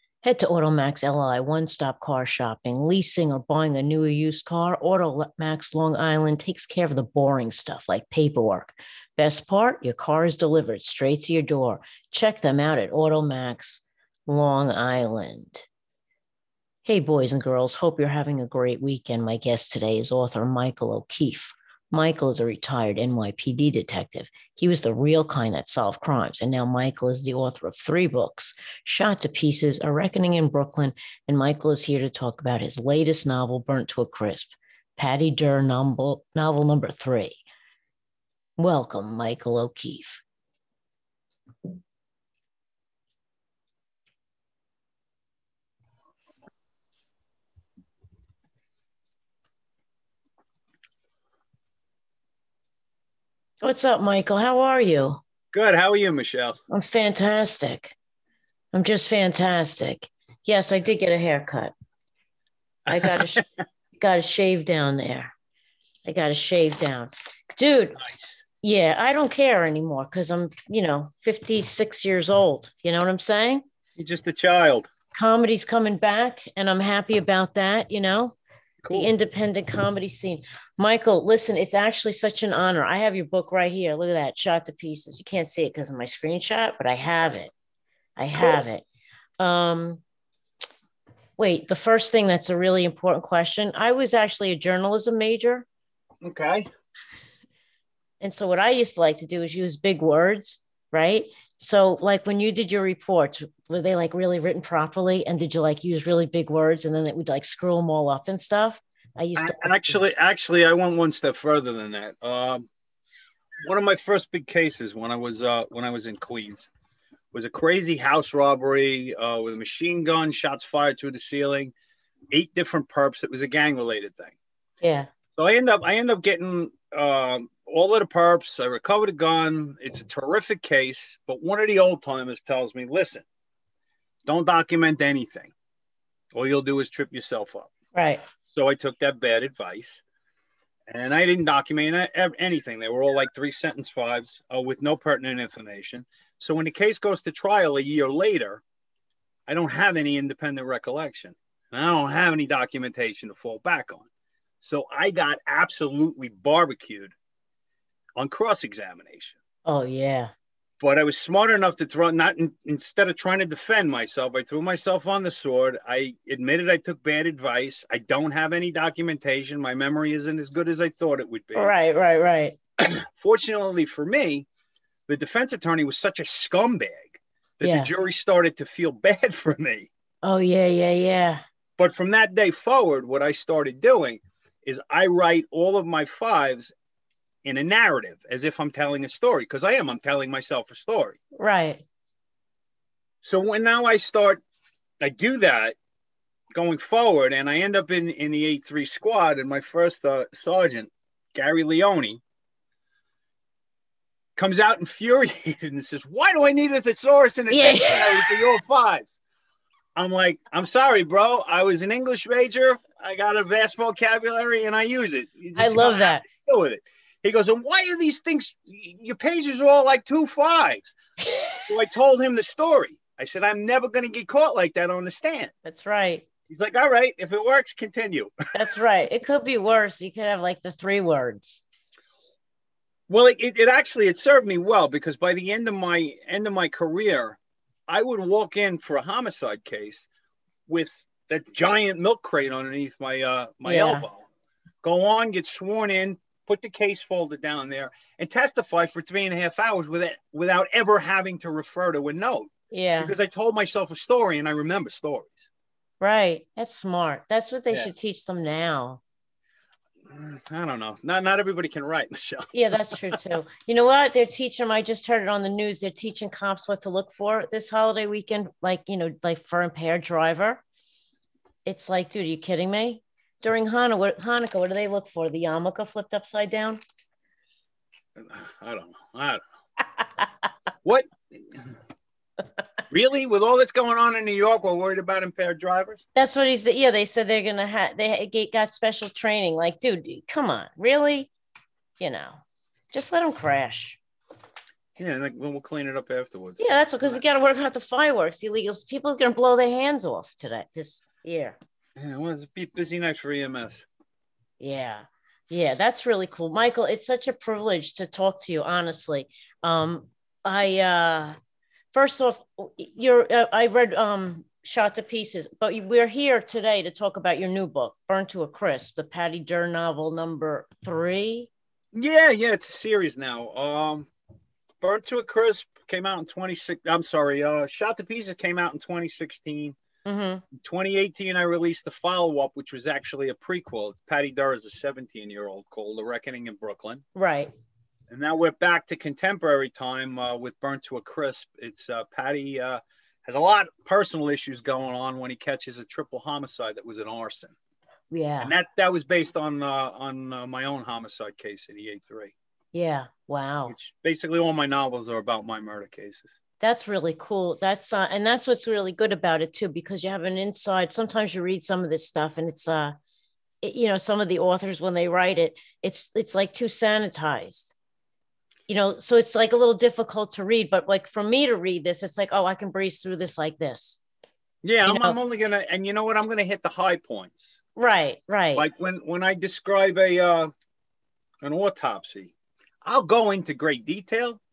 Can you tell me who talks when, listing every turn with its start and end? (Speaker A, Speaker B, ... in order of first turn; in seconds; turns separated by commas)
Speaker A: 0.2-15.7, Speaker A: 16.9-37.4, Speaker A: 38.6-40.2, Speaker A: 53.6-55.2, Speaker B: 55.5-56.6, Speaker A: 56.7-58.0, Speaker A: 58.7-61.7, Speaker B: 62.9-63.5, Speaker A: 62.9-63.4, Speaker A: 64.0-65.3, Speaker A: 66.1-73.6, Speaker B: 68.0-68.4, Speaker B: 74.0-74.9, Speaker A: 75.1-78.4, Speaker B: 78.8-79.1, Speaker A: 78.9-87.5, Speaker A: 88.2-88.8, Speaker A: 89.4-90.0, Speaker A: 91.4-95.7, Speaker B: 96.2-96.7, Speaker A: 98.2-110.0, Speaker B: 109.4-112.7, Speaker B: 113.6-116.7, Speaker B: 117.3-121.7, Speaker B: 122.3-124.4, Speaker A: 124.8-125.1, Speaker B: 125.4-133.2, Speaker B: 134.3-135.5, Speaker B: 136.3-137.7, Speaker A: 137.9-138.2, Speaker B: 138.5-140.0, Speaker B: 140.9-148.6, Speaker B: 149.5-154.1, Speaker B: 154.6-157.1, Speaker B: 158.2-159.4, Speaker A: 159.7-160.3, Speaker B: 160.8-171.7, Speaker A: 171.6-172.6, Speaker B: 172.8-174.5, Speaker B: 175.1-179.9, Speaker A: 177.6-177.9, Speaker A: 180.2-181.4, Speaker B: 181.8-186.7, Speaker B: 187.4-191.2, Speaker A: 191.4-191.8, Speaker B: 193.2-194.4, Speaker B: 195.0-195.8, Speaker B: 196.5-202.2, Speaker B: 204.4-209.2, Speaker A: 207.5-208.5, Speaker B: 210.0-220.9, Speaker A: 215.6-216.2, Speaker A: 221.2-221.6, Speaker B: 221.7-225.5, Speaker A: 225.7-226.3, Speaker B: 226.5-228.3, Speaker A: 228.5-231.6, Speaker B: 233.1-240.1, Speaker B: 240.7-244.2, Speaker A: 243.7-244.1, Speaker B: 244.8-255.5, Speaker A: 252.7-253.1, Speaker A: 256.0-259.0, Speaker B: 260.1-263.1, Speaker A: 262.5-270.6, Speaker A: 271.6-276.8, Speaker B: 278.2-279.4, Speaker B: 280.9-281.7, Speaker B: 282.9-286.0, Speaker A: 286.1-291.3, Speaker A: 292.0-294.0, Speaker B: 295.0-297.2, Speaker A: 296.6-301.6, Speaker B: 302.0-303.9, Speaker A: 304.6-311.4, Speaker A: 311.9-321.5, Speaker B: 321.9-324.1, Speaker B: 324.8-329.8, Speaker A: 330.1-330.4, Speaker B: 330.6-337.0, Speaker A: 337.1-337.5, Speaker B: 338.1-347.5, Speaker A: 348.1-348.5, Speaker B: 348.4-352.3, Speaker A: 352.7-353.8, Speaker B: 353.7-356.4, Speaker A: 356.6-362.9, Speaker A: 363.6-367.7, Speaker A: 368.7-374.0, Speaker B: 374.6-377.6, Speaker A: 374.9-375.2, Speaker A: 377.8-378.7, Speaker B: 378.6-380.5, Speaker B: 381.4-382.3, Speaker B: 382.8-384.4